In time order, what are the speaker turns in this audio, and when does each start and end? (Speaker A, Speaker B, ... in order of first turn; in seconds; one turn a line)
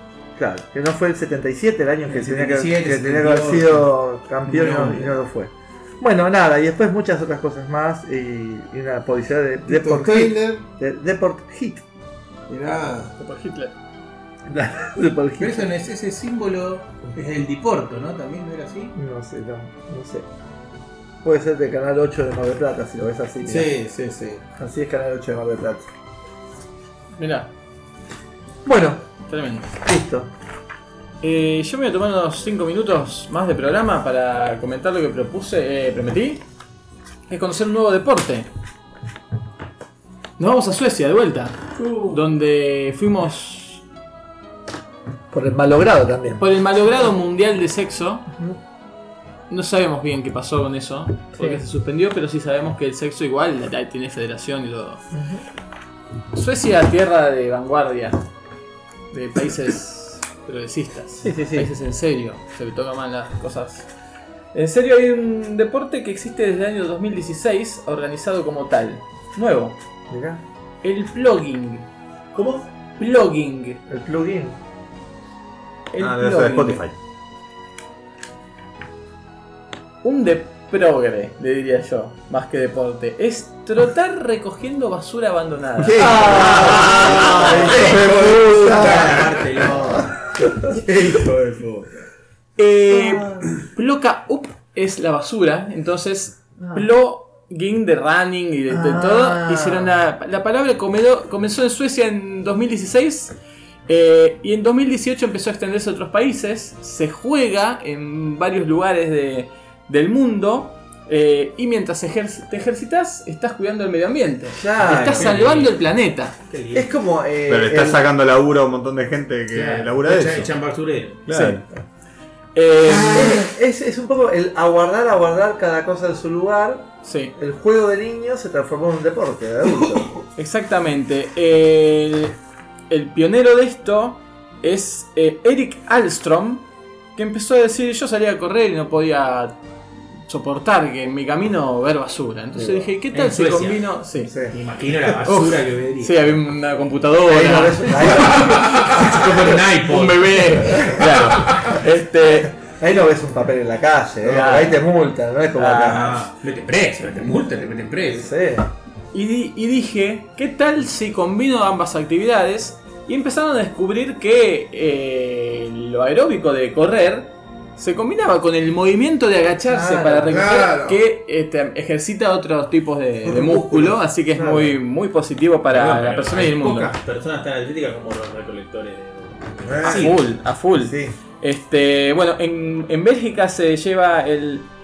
Speaker A: 0.3-11.8
Speaker B: 2.1-3.9
Speaker B: 4.5-5.2
Speaker C: 9.7-10.6
Speaker C: 12.5-13.1
Speaker D: 13.2-13.7
Speaker A: 14.5-15.7
Speaker B: 15.4-18.9
Speaker A: 18.9-20.2
Speaker A: 21.2-23.7
Speaker C: 23.4-24.4
Speaker A: 24.6-25.9
Speaker D: 27.2-27.5
Speaker A: 28.6-29.1
Speaker D: 29.3-29.7
Speaker A: 29.8-30.3
Speaker D: 31.2-36.4
Speaker D: 37.3-38.5
Speaker D: 40.4-43.8
Speaker A: 45.3-46.4
Speaker D: 46.4-48.3
Speaker D: 49.5-55.0
Speaker A: 51.4-51.6
Speaker A: 55.1-55.4
Speaker D: 56.3-58.2
Speaker D: 59.1-63.9
Speaker A: 61.2-61.7
Speaker D: 64.5-69.8
Speaker A: 70.1-70.4
Speaker D: 70.8-71.9
Speaker B: 72.3-72.7
Speaker D: 73.0-73.8
Speaker A: 73.9-74.6
Speaker D: 75.9-76.8
Speaker E: 76.0-77.0
Speaker D: 80.0-87.8
Speaker C: 85.8-89.1
Speaker A: 86.0-90.8
Speaker B: 86.8-91.9
Speaker D: 92.6-103.3
Speaker A: 92.9-93.5
Speaker A: 96.6-96.8
Speaker A: 98.7-100.0
Speaker D: 103.9-116.3
Speaker A: 114.5-115.3
Speaker B: 115.2-115.7
Speaker B: 116.5-116.9
Speaker A: 116.7-118.1
Speaker E: 117.5-120.5
Speaker B: 119.5-121.2
Speaker E: 121.3-121.7
Speaker D: 121.3-121.6
Speaker D: 122.5-123.4
Speaker A: 122.9-130.1
Speaker D: 127.0-127.3
Speaker D: 130.3-132.4
Speaker D: 132.9-136.6
Speaker D: 137.2-139.6
Speaker D: 140.1-144.3
Speaker B: 143.1-143.9
Speaker A: 144.3-144.6
Speaker B: 144.4-146.3
Speaker D: 145.2-149.2
Speaker A: 147.2-149.0
Speaker B: 148.8-150.6
Speaker D: 149.8-152.5
Speaker A: 152.7-156.3
Speaker D: 154.2-154.8
Speaker D: 155.6-156.2
Speaker B: 155.7-158.3
Speaker A: 158.0-158.7
Speaker D: 159.1-176.9
Speaker A: 169.7-170.3
Speaker C: 170.3-171.0
Speaker C: 173.2-174.0
Speaker A: 174.3-174.8
Speaker B: 175.7-180.2
Speaker C: 179.7-180.1
Speaker D: 179.8-184.7